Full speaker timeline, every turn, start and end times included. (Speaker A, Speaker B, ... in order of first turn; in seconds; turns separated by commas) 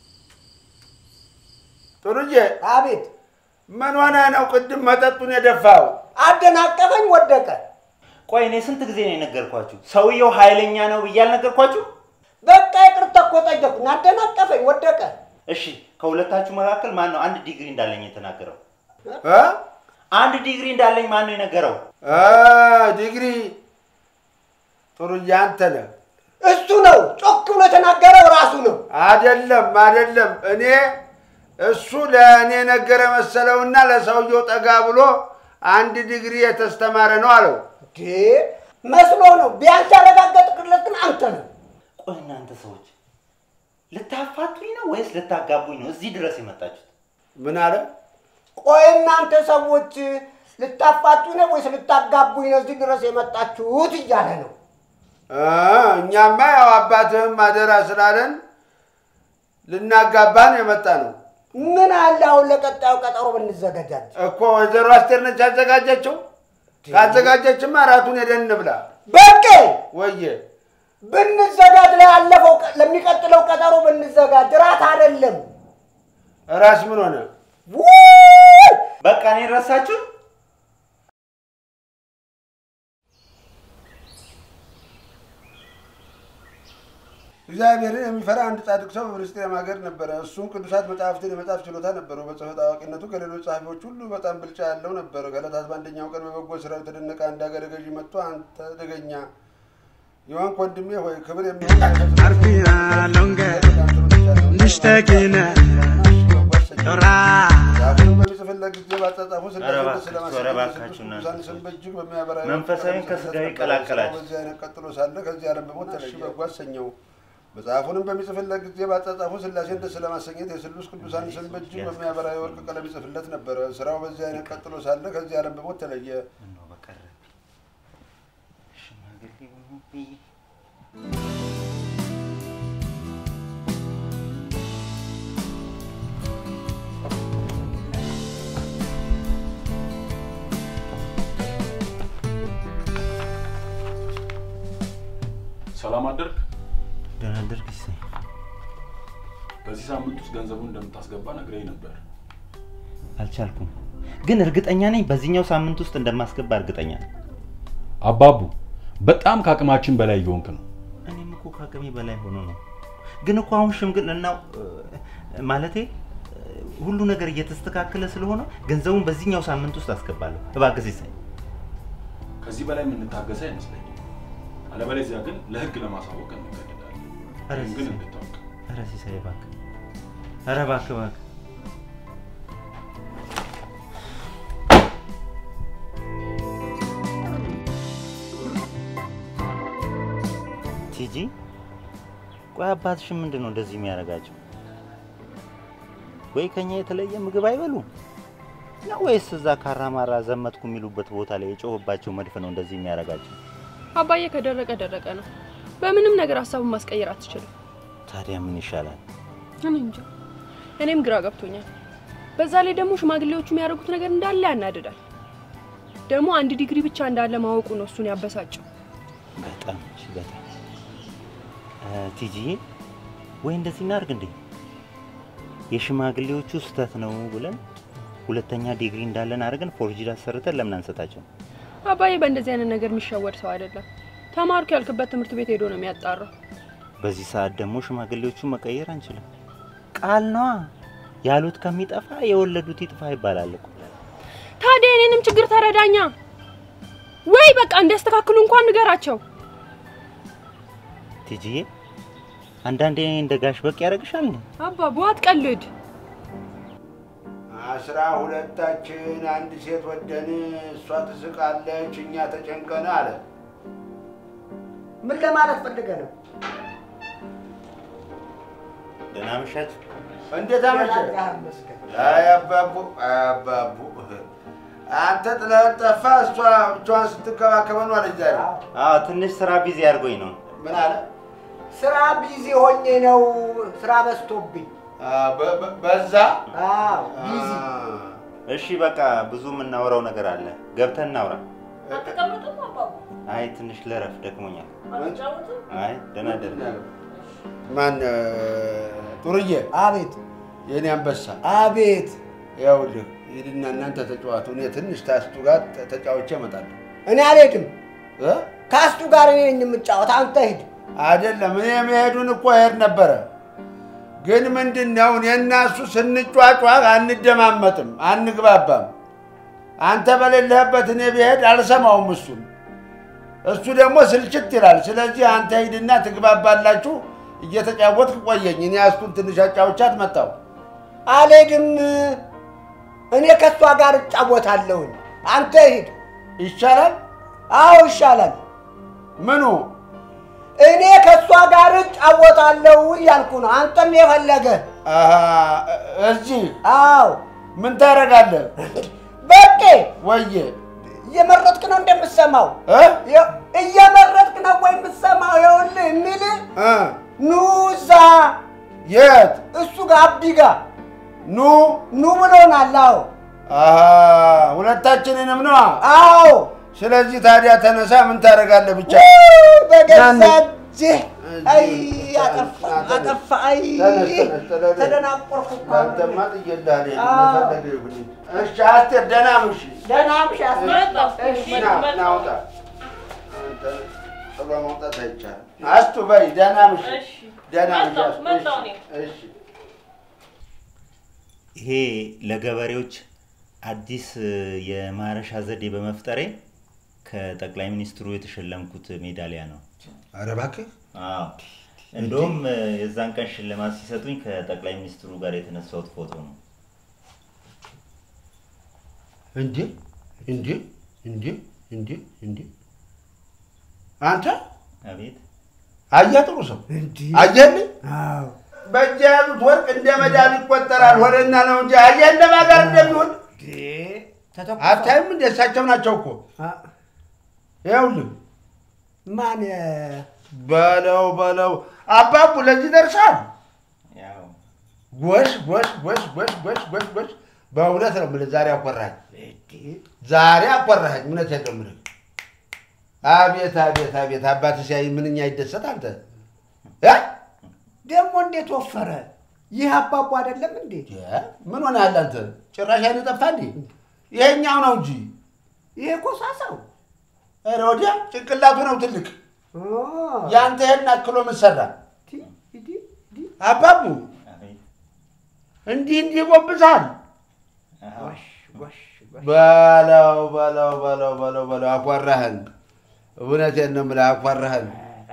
Speaker A: 2.0-2.5, Speaker B: 2.6-3.1, Speaker A: 3.7-6.0, Speaker B: 6.2-7.6, Speaker C: 8.3-11.9, Speaker B: 12.4-15.1, Speaker C: 15.5-18.6, Speaker A: 19.2-19.6, Speaker C: 20.1-21.8, Speaker A: 22.0-23.6, Speaker A: 25.0-25.9, Speaker B: 26.4-28.8, Speaker A: 28.9-30.9, Speaker A: 31.6-37.6, Speaker B: 37.9-41.5, Speaker C: 42.0-42.9, Speaker C: 43.9-46.9, Speaker A: 47.4-47.9, Speaker B: 48.6-54.5, Speaker A: 55.3-58.4, Speaker A: 59.7-61.2, Speaker B: 61.5-64.1, Speaker A: 64.2-66.2, Speaker B: 66.8-67.3, Speaker A: 66.9-68.9, Speaker B: 69.1-69.8, Speaker A: 69.9-70.4, Speaker B: 71.0-75.5, Speaker A: 76.5-77.3, Speaker B: 77.7-78.8, Speaker C: 79.0-80.0, Speaker A: 87.5-99.3, Speaker A: 100.3-117.0, Speaker B: 102.7-103.1, Speaker B: 104.7-105.2, Speaker C: 109.6-111.7, Speaker C: 112.4-114.3, Speaker A: 117.5-126.2, Speaker C: 121.0-122.8, Speaker C: 124.3-124.6, Speaker C: 126.4-127.3, Speaker C: 128.8-130.2, Speaker D: 145.7-146.4, Speaker C: 147.2-148.0, Speaker D: 149.6-152.0, Speaker C: 153.2-153.7, Speaker C: 154.2-157.0, Speaker D: 158.0-160.6, Speaker C: 161.1-162.6, Speaker C: 163.2-171.1, Speaker D: 172.4-174.0, Speaker D: 174.7-178.4, Speaker C: 177.5-178.0, Speaker C: 178.7-179.5, Speaker C: 180.5-181.2, Speaker C: 190.9-191.3, Speaker C: 192.5-194.4, Speaker C: 196.3-197.9, Speaker C: 198.8-203.4, Speaker E: 204.0-205.3, Speaker E: 205.8-207.5, Speaker C: 208.1-209.0, Speaker E: 209.6-210.1, Speaker E: 210.8-211.7, Speaker E: 212.4-215.0, Speaker E: 216.1-218.6, Speaker C: 219.4-220.4, Speaker C: 221.8-222.6, Speaker C: 223.4-224.3, Speaker C: 225.7-227.6, Speaker C: 228.3-231.3, Speaker E: 231.9-236.3, Speaker C: 237.0-239.2, Speaker C: 240.0-240.7, Speaker C: 241.2-243.9, Speaker E: 244.6-246.1, Speaker E: 247.3-249.2, Speaker C: 251.3-251.7, Speaker C: 252.7-254.4, Speaker E: 254.6-255.7, Speaker A: 257.5-263.2, Speaker B: 265.0-266.1, Speaker C: 269.1-269.8, Speaker A: 270.3-271.1, Speaker B: 270.7-271.9, Speaker A: 271.9-274.3, Speaker C: 271.9-272.2, Speaker A: 274.9-278.5, Speaker B: 278.3-278.6, Speaker C: 278.7-280.4, Speaker A: 280.6-281.1, Speaker B: 281.7-284.7, Speaker A: 285.0-286.4, Speaker B: 286.5-287.6, Speaker A: 287.1-288.2, Speaker C: 288.5-291.4, Speaker A: 291.9-292.1, Speaker F: 291.9-293.1, Speaker C: 293.3-294.8, Speaker F: 294.9-295.6, Speaker A: 294.9-295.2, Speaker C: 295.7-296.7, Speaker A: 296.2-296.9, Speaker F: 297.1-297.4, Speaker A: 297.7-299.7, Speaker B: 299.7-300.2, Speaker A: 300.7-301.4, Speaker B: 301.4-302.2, Speaker A: 302.6-306.8, Speaker B: 307.1-307.7, Speaker A: 308.2-308.5, Speaker B: 308.7-310.7, Speaker A: 311.0-313.3, Speaker A: 314.2-318.9, Speaker A: 319.8-322.5, Speaker A: 323.4-330.4, Speaker B: 331.1-332.2, Speaker B: 333.1-335.9, Speaker A: 336.4-337.0, Speaker B: 337.5-338.4, Speaker A: 339.2-339.7, Speaker B: 340.6-344.6, Speaker A: 344.9-346.6, Speaker B: 346.6-347.2, Speaker A: 347.6-348.5, Speaker B: 348.6-349.9, Speaker A: 350.0-350.6, Speaker B: 350.9-356.5, Speaker A: 352.7-353.0, Speaker A: 356.6-357.0, Speaker B: 357.2-358.4, Speaker A: 358.9-359.5, Speaker B: 359.5-360.6, Speaker A: 361.3-361.9, Speaker B: 361.9-363.1, Speaker A: 363.5-365.8, Speaker B: 365.8-366.5, Speaker A: 366.7-369.1, Speaker B: 368.9-376.2, Speaker A: 369.9-370.4, Speaker A: 371.2-373.2, Speaker A: 373.8-375.0, Speaker A: 375.6-379.8, Speaker B: 377.0-377.6, Speaker B: 379.9-380.9, Speaker F: 379.9-382.3, Speaker A: 380.6-382.4, Speaker A: 383.3-389.3, Speaker F: 386.8-388.8, Speaker C: 391.6-393.0, Speaker C: 393.6-396.3, Speaker C: 397.1-399.6, Speaker A: 400.2-400.7, Speaker C: 400.9-401.4, Speaker C: 401.9-406.4, Speaker A: 401.9-402.4, Speaker A: 409.4-409.7, Speaker A: 410.3-412.5, Speaker A: 414.0-414.4, Speaker C: 414.9-415.2, Speaker A: 415.9-416.6, Speaker B: 416.7-418.4, Speaker A: 417.1-417.7, Speaker A: 418.7-423.2, Speaker B: 420.0-421.3, Speaker B: 422.5-425.0, Speaker A: 424.6-426.2, Speaker B: 426.4-426.7, Speaker A: 427.6-428.1, Speaker B: 429.1-430.1, Speaker A: 430.3-433.3, Speaker C: 433.9-434.4, Speaker A: 434.9-439.0, Speaker B: 439.1-439.8, Speaker A: 440.0-441.8, Speaker A: 443.0-446.0, Speaker B: 447.9-450.9, Speaker A: 450.9-453.6, Speaker A: 454.1-455.1, Speaker B: 455.8-456.6, Speaker A: 457.5-459.1, Speaker B: 459.5-460.4, Speaker A: 460.3-461.7, Speaker B: 462.1-463.3, Speaker A: 463.4-464.1, Speaker C: 464.2-464.6, Speaker A: 465.7-466.9, Speaker C: 467.8-468.6, Speaker B: 468.0-469.3, Speaker A: 469.2-472.5, Speaker A: 473.2-474.7